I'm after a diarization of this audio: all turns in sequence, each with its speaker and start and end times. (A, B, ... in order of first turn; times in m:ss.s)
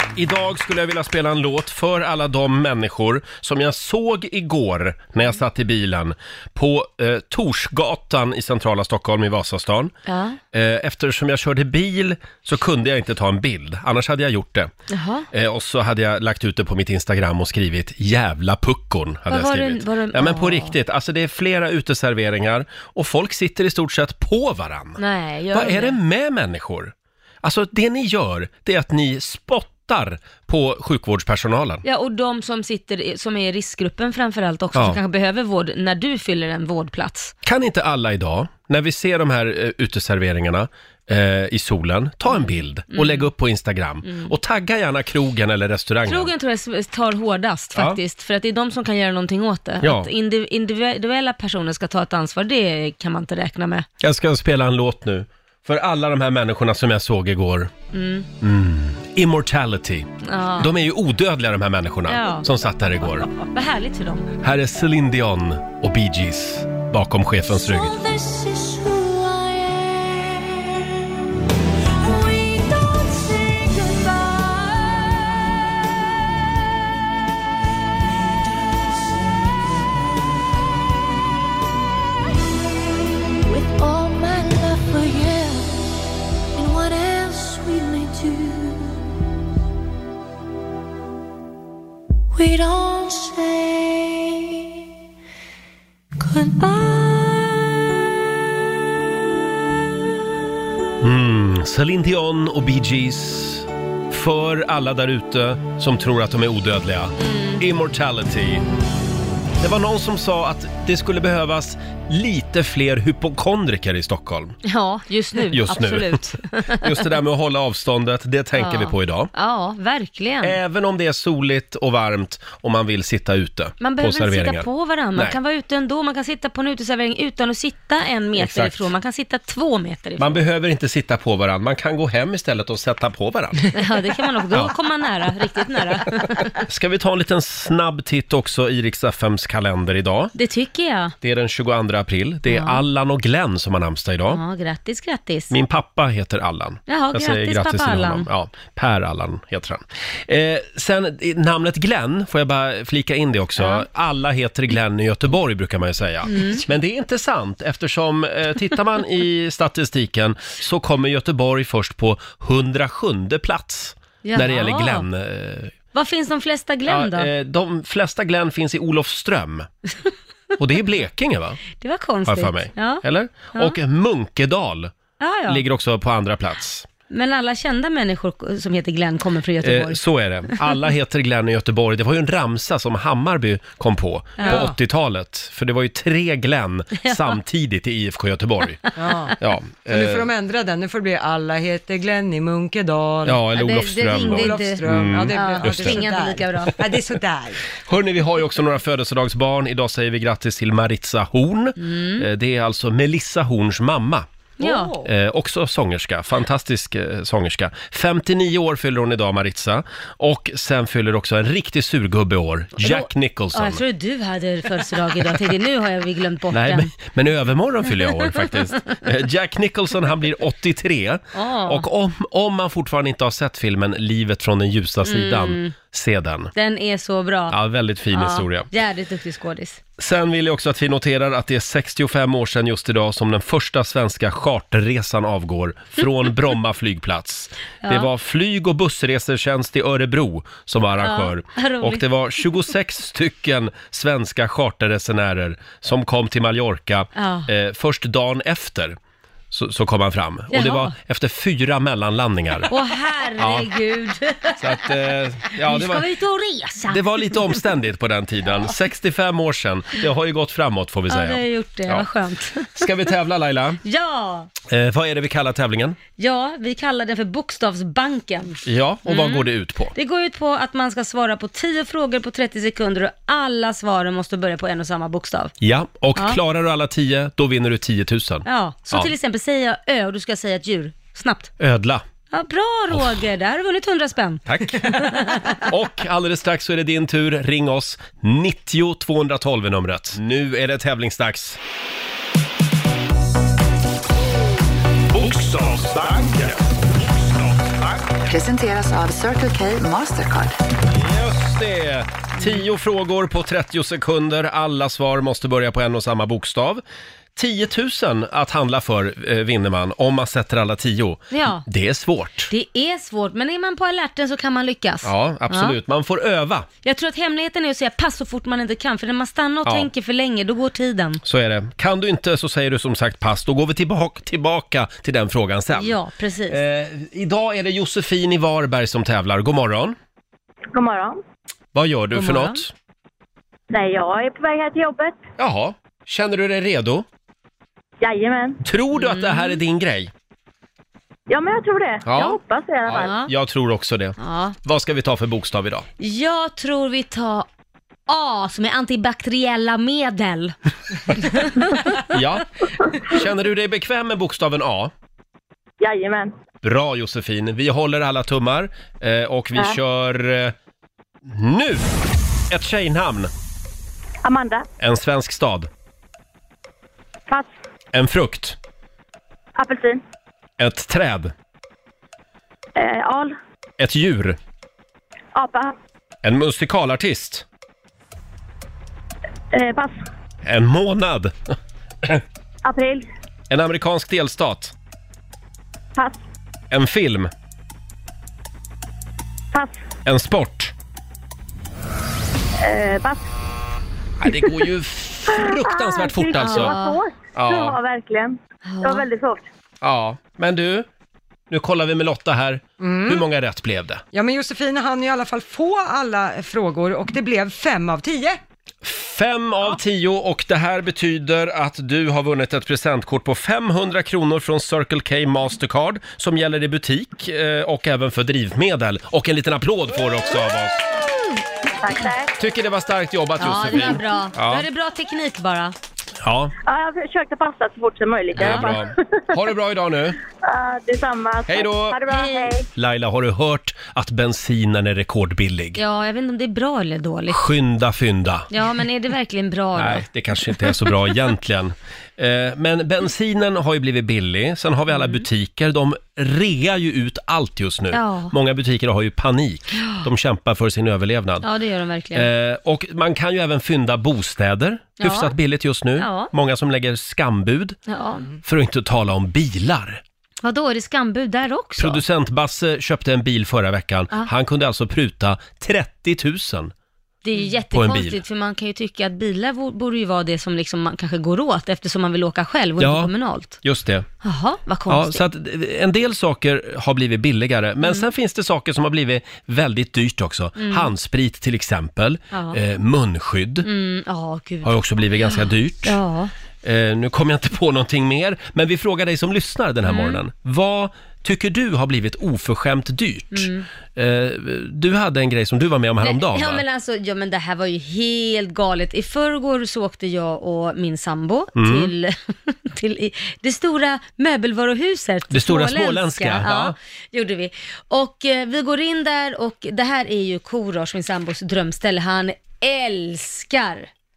0:00.1-0:10.0 A
0:10.0-0:10.4 B
0:10.5-0:14.7 A
0:14.9-0:15.3 B
0:15.3-0:25.0 A
0:19.3-0:20.8 B
0:25.0-0:26.0 B
0:25.5-0:31.8 A
0:31.8-0:37.3 B
0:37.4-0:46.3 A
0:42.3-0:43.3 B
0:44.0-0:44.3 B
0:46.0-0:53.9 B
0:49.8-0:50.1 A
0:54.0-0:57.7 A
0:57.9-0:58.3 B
0:58.4-1:03.3 A
1:00.2-1:00.7 B
1:02.1-1:02.5 B
1:03.2-1:04.3 B
1:04.4-1:08.0 A
1:07.7-1:10.5 C
1:12.0-1:15.8 C
1:23.4-1:25.8 C
1:26.5-1:29.0 C
1:32.3-1:34.6 C
1:36.2-1:37.8 C
1:41.0-1:48.6 A
1:47.2-1:47.6 B
1:49.6-1:54.6 A
1:54.6-1:57.1 B
1:55.5-1:59.3 A
1:58.5-2:00.6 B
2:00.4-2:05.4 A
2:03.8-2:10.4 B
2:08.4-2:08.9 A
2:10.2-2:13.7 A
2:13.7-2:16.6 B
2:16.6-2:20.3 A
2:20.3-2:21.1 B
2:21.2-2:24.4 A
2:22.5-2:22.8 B
2:24.3-2:25.5 B
2:25.5-2:45.7 A
2:26.9-2:28.3 B
2:33.6-2:33.8 B
2:36.2-2:36.6 B
2:44.2-2:45.1 B
2:45.9-2:47.3 B
2:46.9-2:49.7 A
2:50.6-2:51.6 A
2:51.8-2:53.8 B
2:52.2-2:54.9 A
2:55.2-2:55.6 B
2:55.5-2:56.9 A
2:57.1-3:00.6 B
2:59.6-3:08.8 A
3:04.4-3:04.7 B
3:04.4-3:04.8 D
3:09.0-3:09.4 D
3:09.4-3:10.3 A
3:09.9-3:13.4 D
3:13.2-3:16.1 A
3:13.5-3:16.7 B
3:14.0-3:17.8 D
3:17.8-3:24.3 A
3:21.8-3:22.2 B
3:24.6-3:24.9 B
3:24.6-3:25.1 D
3:25.0-3:33.8 A
3:32.8-3:36.9 B
3:36.5-3:46.5 A
3:38.2-3:39.0 B
3:41.3-3:41.8 B
3:45.0-3:45.7 B
3:46.5-3:47.6 B
3:47.5-3:48.7 A
3:48.1-3:49.8 B
3:50.0-4:09.0 A
3:57.8-3:58.1 B
4:01.0-4:02.0 B
4:07.2-4:07.5 B
4:09.5-4:12.7 A
4:10.5-4:10.9 B
4:12.7-4:14.9 B
4:13.4-4:13.7 A
4:14.6-4:16.1 A
4:15.5-4:17.4 B
4:16.9-4:22.1 A
4:21.1-4:22.9 B
4:22.7-4:23.8 A
4:23.8-4:24.5 B
4:24.6-4:26.0 A
4:26.2-4:35.5 B
4:28.6-4:29.9 A
4:35.6-4:39.1 A
4:36.1-4:36.4 B
4:38.4-4:41.5 B
4:41.6-4:42.0 A
4:42.3-4:45.6 B
4:42.9-4:43.2 A
4:44.4-4:51.6 A
4:55.1-4:57.8 E
4:58.2-5:00.6 F
5:00.8-5:06.8 A
5:07.4-5:12.5 A
5:11.3-5:11.6 B
5:12.5-5:15.8 B
5:15.0-5:16.7 A
5:16.8-5:21.2 B
5:21.2-5:30.0 A
5:25.7-5:26.6 B
5:30.7-5:31.2 G
5:31.7-5:32.7 A
5:32.1-5:32.6 B
5:33.7-5:35.2 G
5:35.4-5:37.0 A
5:38.0-5:38.6 G
5:38.6-5:40.1 A
5:38.9-5:39.6 B
5:41.3-5:43.1 G
5:42.0-5:45.8 A
5:42.9-5:43.3 B
5:44.2-5:44.6 B
5:46.0-5:47.5 B
5:48.1-5:51.8 B
5:52.1-5:54.9 A
5:55.8-5:56.3 G
5:56.6-6:00.5 A
6:01.2-6:01.9 A
6:02.5-6:03.3 A
6:04.2-6:04.7 G
6:04.8-6:05.7 A
6:07.9-6:08.6 A
6:09.6-6:10.0 G
6:10.6-6:11.3 A
6:12.8-6:13.3 G
6:13.8-6:14.4 A
6:15.3-6:15.7 G
6:16.2-6:17.4 A
6:19.5-6:20.0 G
6:20.4-6:22.2 A
6:22.6-6:23.1 G
6:23.5-6:24.7 A
6:26.0-6:26.2 G
6:26.7-6:27.3 A
6:30.0-6:30.7 A
6:32.6-6:33.2 G
6:34.2-6:36.8 A
6:35.3-6:39.4 G
6:36.4-6:37.0 B
6:37.3-6:37.8 A
6:38.6-6:39.0 B
6:39.8-6:40.9 A
6:41.5-6:44.0 A
6:42.8-6:43.2 D
6:44.1-6:48.4 D
6:48.8-7:01.0 A
7:01.8-7:02.4 G
7:02.4-7:04.6 A
7:03.4-7:05.7 B
7:06.2-7:06.5 A
7:06.6-7:09.4 G
7:08.3-7:10.2 A
7:08.4-7:08.7 B
7:10.4-7:12.7 G
7:11.5-7:12.0 A
7:12.1-7:12.5 B
7:12.7-7:15.8 A
7:15.8-7:17.4 B
7:17.3-7:18.5 A
7:18.5-7:20.0 B
7:19.8-7:31.4 A
7:24.9-7:25.2 B
7:27.9-7:28.3 B
7:29.8-7:30.0 B
7:31.4-7:32.3 B
7:32.1-7:37.8 A
7:35.0-7:35.3 B
7:36.0-7:36.3 B
7:37.9-7:38.2 B
7:38.4-7:40.0 A
7:40.4-7:42.0 B
7:41.8-7:46.7 A
7:47.2-7:53.6 B
7:47.7-7:48.2 A
7:52.8-7:54.1 A
7:54.2-7:55.2 B
7:54.9-8:03.7 A
7:57.8-7:58.1 B
8:00.6-8:00.9 B
8:02.3-8:02.6 B
8:03.6-8:06.3 B
8:04.6-8:06.0 A
8:06.6-8:16.6 A
8:09.8-8:10.2 B
8:13.3-8:13.6 B
8:16.0-8:33.9 B
8:21.6-8:21.9 A
8:25.3-8:26.7 A